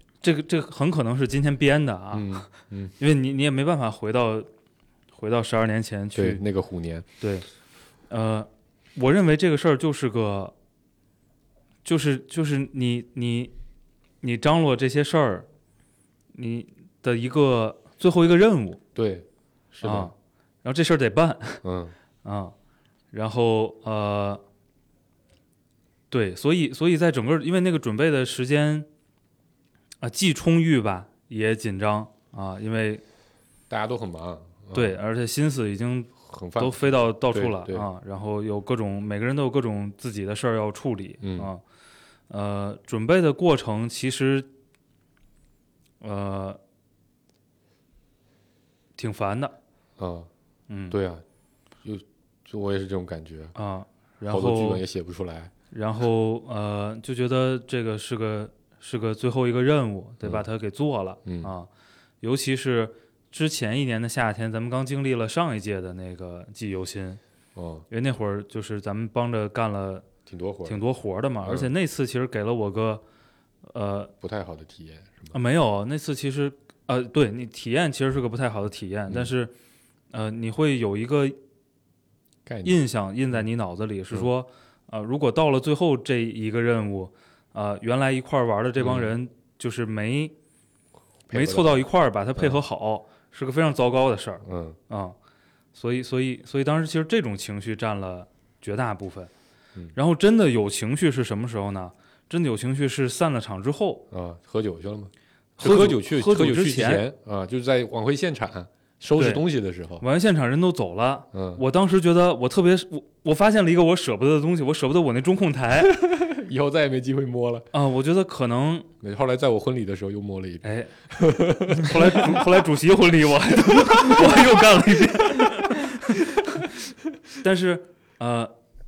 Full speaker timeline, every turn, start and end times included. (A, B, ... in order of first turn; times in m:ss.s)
0:00.2-0:02.5 A
0:02.1-0:02.9 B
0:03.0-0:04.5 A
0:05.1-0:06.4 A
0:06.1-0:07.1 B
0:07.2-0:07.5 A
0:08.1-0:10.5 A
0:11.8-0:13.5 A
0:14.2-0:15.5 A
0:16.3-0:18.8 A
0:19.0-0:20.1 B
0:19.8-0:20.1 A
0:20.6-0:21.6 A
0:21.6-0:21.9 B
0:22.2-0:22.5 A
0:23.1-0:24.4 A
0:26.1-0:28.9 A
0:30.0-0:33.0 A
0:33.7-0:35.0 B
0:34.7-0:41.6 A
0:36.3-0:37.9 B
0:41.2-0:41.5 B
0:42.3-0:44.5 A
0:46.0-0:46.6 A
0:49.0-0:49.5 A
0:50.0-0:50.3 B
0:50.7-0:51.0 A
0:50.9-0:51.2 B
0:51.8-0:53.6 B
0:53.6-0:54.8 A
0:54.3-0:55.5 B
0:55.7-1:01.7 A
1:01.2-1:01.5 B
1:02.2-1:07.2 A
1:07.6-1:07.9 B
1:07.9-1:10.1 A
1:10.3-1:10.8 B
1:10.6-1:13.0 A
1:11.4-1:11.7 B
1:13.7-1:14.1 A
1:14.2-1:15.4 B
1:15.3-1:19.5 A
1:20.1-1:21.4 A
1:22.5-1:22.8 B
1:22.6-1:30.3 A
1:28.8-1:29.2 B
1:31.3-1:31.8 B
1:31.3-1:35.2 A
1:34.4-1:34.8 B
1:35.8-1:39.3 A
1:40.0-1:44.0 A
1:44.1-1:50.0 B
1:45.6-1:47.1 A
1:49.2-1:49.4 A
1:50.0-1:56.0 A
1:51.3-1:51.6 B
1:55.8-1:57.7 B
1:57.7-1:58.9 A
1:59.0-2:02.5 B
2:00.6-2:00.9 A
2:01.7-2:06.6 A
2:03.7-2:04.6 B
2:05.3-2:05.7 B
2:07.4-2:08.5 A